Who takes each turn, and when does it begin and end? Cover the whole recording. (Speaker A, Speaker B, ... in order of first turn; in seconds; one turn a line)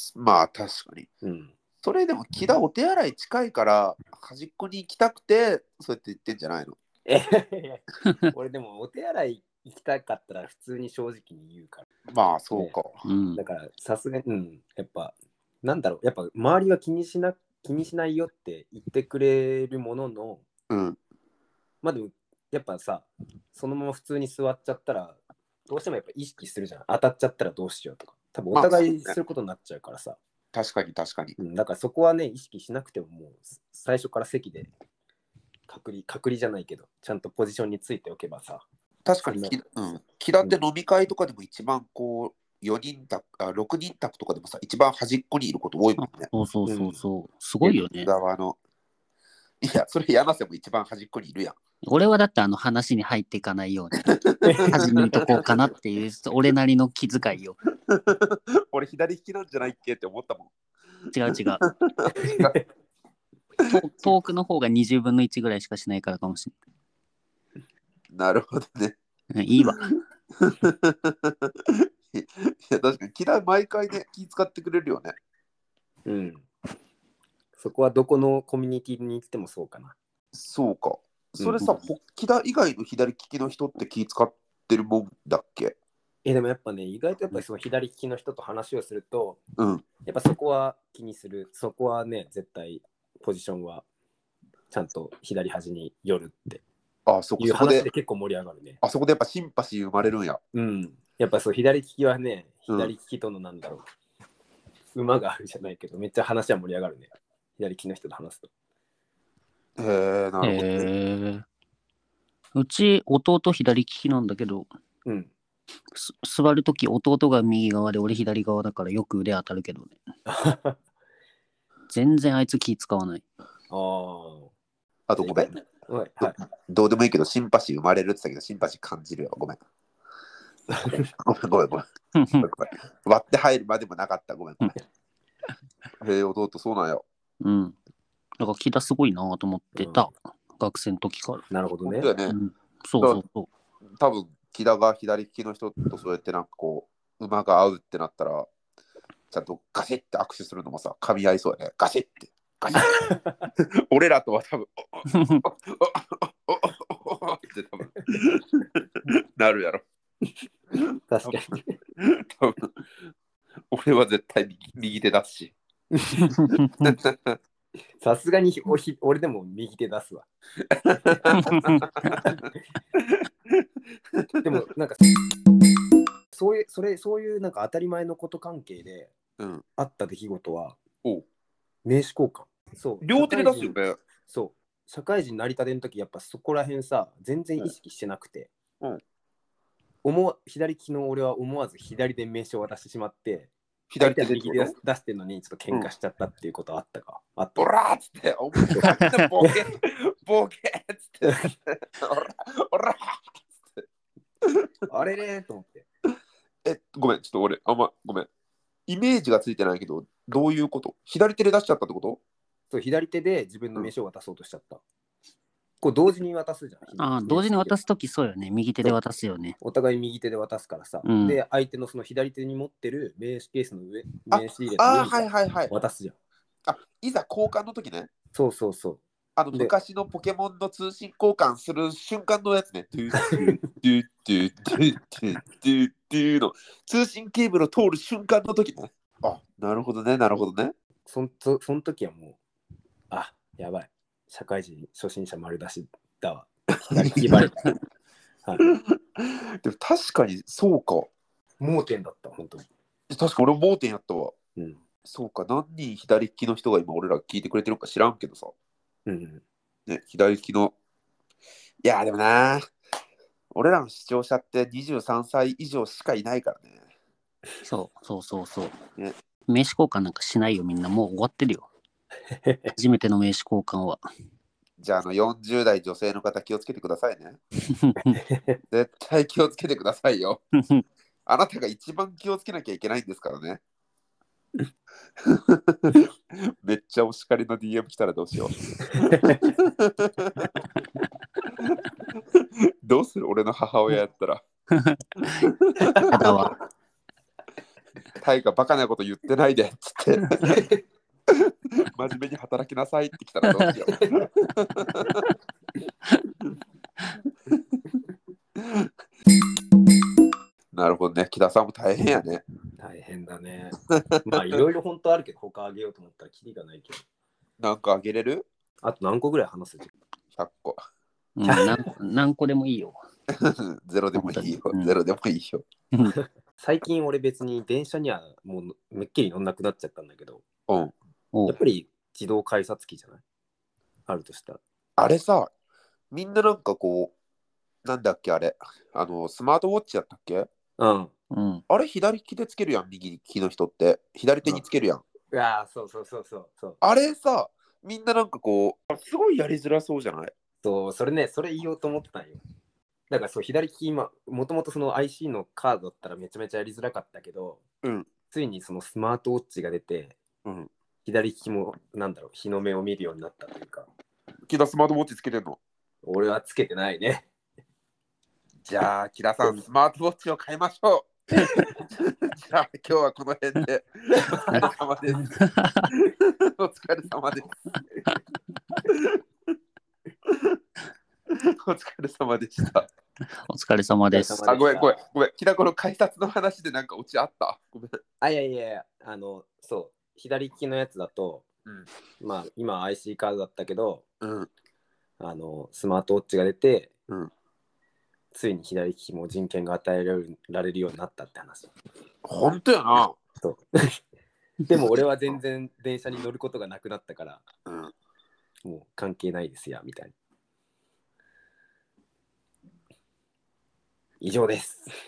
Speaker A: 0.1-1.1
Speaker B: 1.2-1.5
Speaker A: 1.8-6.8
Speaker B: 7.0-11.9
Speaker A: 12.1-12.9
Speaker B: 12.5-12.8
Speaker C: 13.0-13.4
Speaker B: 13.3-20.4
Speaker A: 20.7-21.0
Speaker B: 21.8-30.2
Speaker A: 28.5-29.1
Speaker A: 30.5-31.4
Speaker B: 31.4-34.7
Speaker B: 35.7-38.6
Speaker A: 39.0-46.3
Speaker B: 39.2-39.6
Speaker C: 46.0-48.1
Speaker B: 46.7-47.0
Speaker A: 47.6-48.6
Speaker A: 49.6-51.5
Speaker C: 51.8-54.1
Speaker A: 54.1-54.4
Speaker B: 54.4-55.1
Speaker C: 54.6-57.6
Speaker A: 57.9-60.5
Speaker C: 61.1-61.6
Speaker A: 61.6-62.5
Speaker B: 62.2-62.6
Speaker C: 63.7-66.5
Speaker A: 68.1-69.0
Speaker C: 69.3-69.8
Speaker A: 69.6-75.1
Speaker B: 76.0-76.5
Speaker B: 77.5-80.0
Speaker A: 80.3-85.8
Speaker B: 81.4-81.6
Speaker B: 86.2-89.4
Speaker A: 89.6-89.8
Speaker B: 90.0-93.8
Speaker B: 94.7-96.6
Speaker A: 97.0-97.9
Speaker B: 97.4-98.8
Speaker A: 98.8-100.4
Speaker B: 100.5-103.8
Speaker B: 104.9-108.5
Speaker A: 109.8-110.9
Speaker C: 110.4-111.4
Speaker C: 112.5-114.7
Speaker B: 115.0-115.3
Speaker C: 115.9-119.9
Speaker B: 120.3-120.8
Speaker C: 121.9-123.2
Speaker B: 123.7-124.5
Speaker A: 125.1-125.5
Speaker B: 125.2-126.4
Speaker A: 126.2-129.6
Speaker B: 130.7-131.1
Speaker A: 131.2-131.9
Speaker C: 132.1-132.5
Speaker A: 132.4-134.7
Speaker A: 136.0-137.0
Speaker C: 137.4-137.7
Speaker C: 138.4-141.4
Speaker B: 139.8-140.1
Speaker B: 141.5-142.1
Speaker A: 141.8-142.3
Speaker C: 142.2-143.5
Speaker A: 144.0-148.5
Speaker A: 149.3-159.8
Speaker B: 152.8-153.4
Speaker C: 155.1-155.4
Speaker B: 161.1-161.8
Speaker A: 162.0-162.7
Speaker A: 163.7-165.5
Speaker B: 165.9-166.3
Speaker C: 166.4-166.9
Speaker A: 166.7-167.4
Speaker B: 168.0-170.3
Speaker A: 170.8-172.2
Speaker B: 171.0-171.4
Speaker C: 171.3-172.1
Speaker B: 172.1-172.4
Speaker A: 173.0-174.4
Speaker B: 174.4-175.0
Speaker B: 176.3-179.1
Speaker A: 179.4-179.6
Speaker B: 179.8-180.8
Speaker B: 181.8-188.5
Speaker A: 183.0-184.0
Speaker B: 190.0-197.7
Speaker A: 193.9-194.8
Speaker A: 197.6-203.8
Speaker C: 198.8-199.2
Speaker B: 201.2-201.5
Speaker B: 204.9-205.8
Speaker A: 206.6-208.3
Speaker A: 208.9-212.2
Speaker B: 212.7-214.8
Speaker B: 215.8-217.8
Speaker C: 217.0-219.6
Speaker B: 219.6-226.1
Speaker C: 221.0-221.4
Speaker A: 224.3-225.7
Speaker A: 226.7-228.1
Speaker B: 228.3-229.7
Speaker A: 229.3-240.7
Speaker B: 241.1-242.4
Speaker B: 243.1-247.7
Speaker A: 246.9-247.5
Speaker A: 248.6-251.1
Speaker B: 251.6-252.6
Speaker A: 253.1-254.3
Speaker B: 254.6-254.8
Speaker A: 255.1-258.5
Speaker B: 259.1-259.4
Speaker A: 259.9-260.7
Speaker A: 261.8-262.6
Speaker A: 263.5-266.8
Speaker C: 267.6-268.8
Speaker C: 269.5-271.7
Speaker B: 272.3-272.7
Speaker C: 272.7-274.0
Speaker A: 274.8-277.4
Speaker C: 277.7-278.2
Speaker B: 278.1-278.6
Speaker A: 278.7-280.4
Speaker A: 281.2-283.6
Speaker A: 285.2-290.5
Speaker B: 289.1-289.5
Speaker A: 292.3-294.4
Speaker C: 294.7-295.5
Speaker A: 295.2-295.9
Speaker B: 295.8-296.2
Speaker C: 296.1-296.6
Speaker A: 298.2-300.7
Speaker A: 301.3-305.2
Speaker B: 303.9-304.3
Speaker A: 308.6-308.9
Speaker A: 310.7-312.4
Speaker B: 312.8-317.0
Speaker A: 313.9-314.6
Speaker A: 317.6-318.4
Speaker B: 318.8-319.9
Speaker A: 320.4-320.8
Speaker C: 321.4-323.0
Speaker B: 321.5-321.8
Speaker A: 323.3-325.6
Speaker C: 324.1-324.9
Speaker B: 326.6-330.4
Speaker A: 330.7-330.9
Speaker C: 331.3-331.6
Speaker B: 331.5-333.2
Speaker B: 334.1-334.6
Speaker A: 335.0-335.5
Speaker A: 336.1-337.1
Speaker A: 337.8-340.5
Speaker B: 340.8-341.1
Speaker C: 341.3-341.6
Speaker A: 341.7-345.0
Speaker B: 345.3-346.8
Speaker A: 346.8-350.3
Speaker B: 350.6-352.4
Speaker B: 353.1-357.6
Speaker B: 358.3-360.2
Speaker A: 360.4-360.7
Speaker B: 361.0-363.9
Speaker A: 364.5-365.6
Speaker B: 366.0-367.3
Speaker A: 368.6-375.2
Speaker C: 374.5-375.9
Speaker A: 375.9-377.5
Speaker A: 378.9-379.1
Speaker A: 380.3-380.6
Speaker A: 381.6-382.9
Speaker C: 383.5-384.4
Speaker B: 384.1-385.0
Speaker A: 384.4-388.0
Speaker B: 388.2-391.4
Speaker B: 392.2-394.0
Speaker A: 394.2-394.5
Speaker B: 395.2-396.9
Speaker B: 398.3-401.7
Speaker A: 402.2-403.2
Speaker B: 404.7-407.5
Speaker A: 407.6-407.9
Speaker B: 408.6-410.1
Speaker B: 414.2-414.9